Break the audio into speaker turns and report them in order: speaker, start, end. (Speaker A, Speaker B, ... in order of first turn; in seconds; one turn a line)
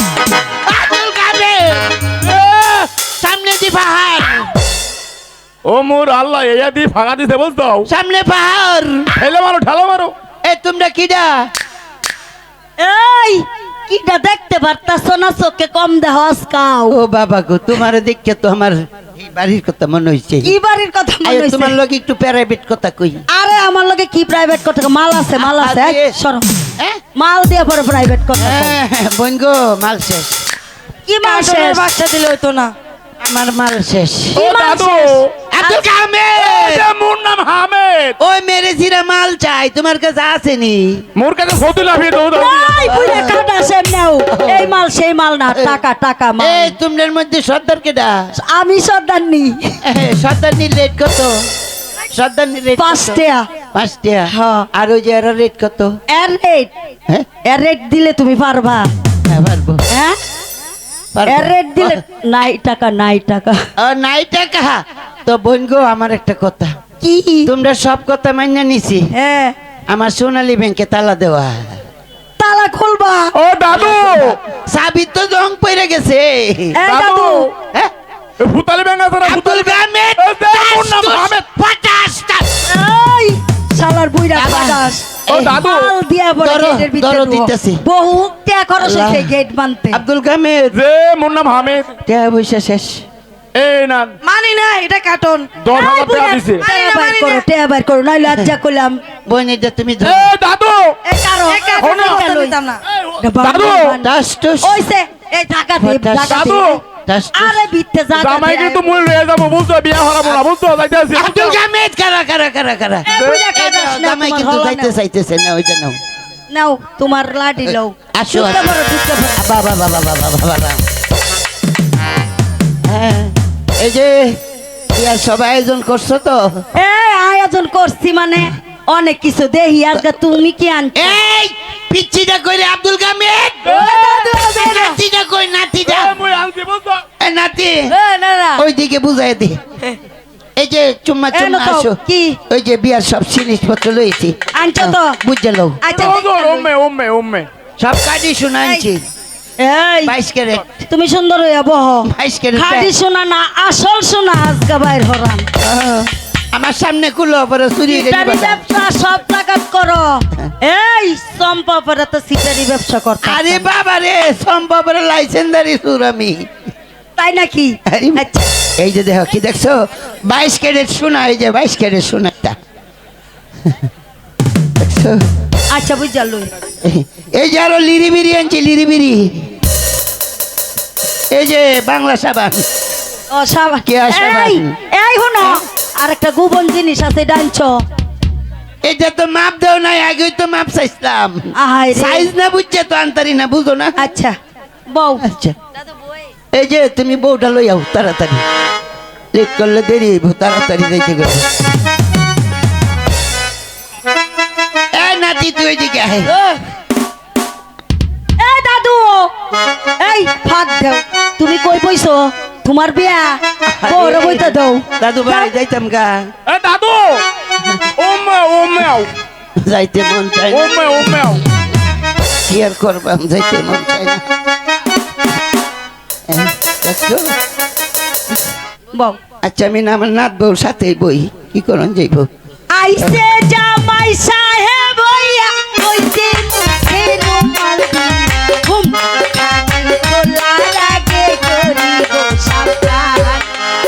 Speaker A: 0.6-4.5
Speaker B: 5.7-7.9
Speaker A: 7.8-9.1
Speaker B: 9.1-10.2
Speaker A: 10.4-11.5
Speaker C: 12.8-17.0
Speaker A: 16.9-20.5
Speaker C: 20.4-21.8
Speaker A: 21.2-23.2
Speaker C: 23.3-26.5
Speaker A: 25.4-26.2
Speaker C: 27.1-28.8
Speaker A: 28.4-30.4
Speaker C: 31.1-31.9
Speaker D: 31.2-32.7
Speaker A: 33.2-34.4
Speaker C: 34.4-35.2
Speaker B: 34.4-35.4
Speaker A: 35.5-36.9
Speaker B: 36.4-38.1
Speaker A: 38.2-41.0
Speaker B: 41.2-42.9
Speaker C: 42.3-46.8
Speaker A: 42.9-43.4
Speaker A: 44.3-44.8
Speaker A: 45.5-45.8
Speaker A: 46.4-48.3
Speaker C: 48.4-49.8
Speaker A: 49.9-51.4
Speaker A: 52.1-53.2
Speaker C: 52.8-53.5
Speaker A: 53.7-55.9
Speaker C: 54.3-54.7
Speaker C: 56.1-56.7
Speaker C: 57.5-58.9
Speaker A: 59.3-59.8
Speaker C: 59.9-60.2
Speaker A: 61.1-62.0
Speaker C: 61.3-63.6
Speaker A: 63.8-66.7
Speaker C: 67.0-67.5
Speaker A: 67.5-69.1
Speaker C: 69.1-69.5
Speaker A: 69.9-71.7
Speaker C: 72.4-73.3
Speaker B: 73.3-74.3
Speaker A: 73.7-76.8
Speaker C: 76.8-77.5
Speaker B: 76.9-77.5
Speaker B: 78.4-81.4
Speaker A: 79.2-82.6
Speaker C: 82.7-85.1
Speaker A: 84.3-85.7
Speaker B: 85.3-85.9
Speaker C: 85.6-90.0
Speaker A: 86.4-87.8
Speaker A: 88.8-89.3
Speaker A: 89.9-90.8
Speaker B: 90.7-91.9
Speaker A: 92.0-93.0
Speaker B: 93.6-94.2
Speaker D: 94.2-95.5
Speaker B: 95.6-96.7
Speaker C: 95.7-99.0
Speaker D: 96.6-97.4
Speaker A: 99.3-100.3
Speaker B: 100.0-100.9
Speaker C: 101.0-102.6
Speaker D: 101.5-102.8
Speaker B: 101.8-102.2
Speaker B: 103.0-104.0
Speaker C: 103.2-104.1
Speaker A: 104.0-104.8
Speaker C: 104.6-106.8
Speaker A: 105.8-107.7
Speaker B: 106.3-106.8
Speaker C: 107.3-109.0
Speaker B: 108.1-111.6
Speaker A: 111.1-116.0
Speaker C: 113.1-115.0
Speaker B: 113.2-113.4
Speaker C: 116.5-119.4
Speaker A: 117.7-118.8
Speaker A: 119.4-120.8
Speaker A: 122.9-124.4
Speaker A: 124.9-126.6
Speaker C: 126.8-131.2
Speaker A: 131.0-136.2
Speaker B: 133.7-134.4
Speaker C: 133.7-135.0
Speaker B: 135.8-137.0
Speaker A: 137.2-137.9
Speaker C: 137.9-138.6
Speaker A: 138.6-139.6
Speaker A: 140.6-142.0
Speaker C: 141.3-142.4
Speaker A: 142.5-146.0
Speaker C: 144.6-145.2
Speaker C: 145.8-146.7
Speaker B: 145.9-147.5
Speaker A: 147.8-149.0
Speaker C: 149.6-150.1
Speaker A: 150.0-150.8
Speaker C: 150.9-155.5
Speaker A: 152.1-152.9
Speaker A: 155.6-158.6
Speaker C: 157.9-163.7
Speaker A: 163.2-166.4
Speaker C: 167.2-168.5
Speaker A: 167.9-172.6
Speaker A: 174.8-175.2
Speaker C: 175.7-176.5
Speaker A: 176.8-179.5
Speaker A: 181.3-182.7
Speaker C: 183.3-187.8
Speaker A: 183.8-184.8
Speaker A: 188.8-193.9
Speaker C: 191.6-192.3
Speaker C: 194.0-194.3
Speaker C: 194.9-195.2
Speaker A: 195.2-195.6
Speaker A: 196.5-198.4
Speaker A: 199.3-201.7
Speaker A: 204.9-206.3
Speaker C: 208.4-209.3
Speaker C: 210.0-215.5
Speaker A: 213.7-216.3
Speaker B: 216.5-217.2
Speaker B: 218.0-219.1
Speaker A: 219.6-221.1
Speaker B: 220.5-221.4
Speaker A: 222.5-224.2
Speaker A: 226.3-227.3
Speaker C: 228.9-229.2
Speaker A: 229.4-232.3
Speaker C: 232.7-243.5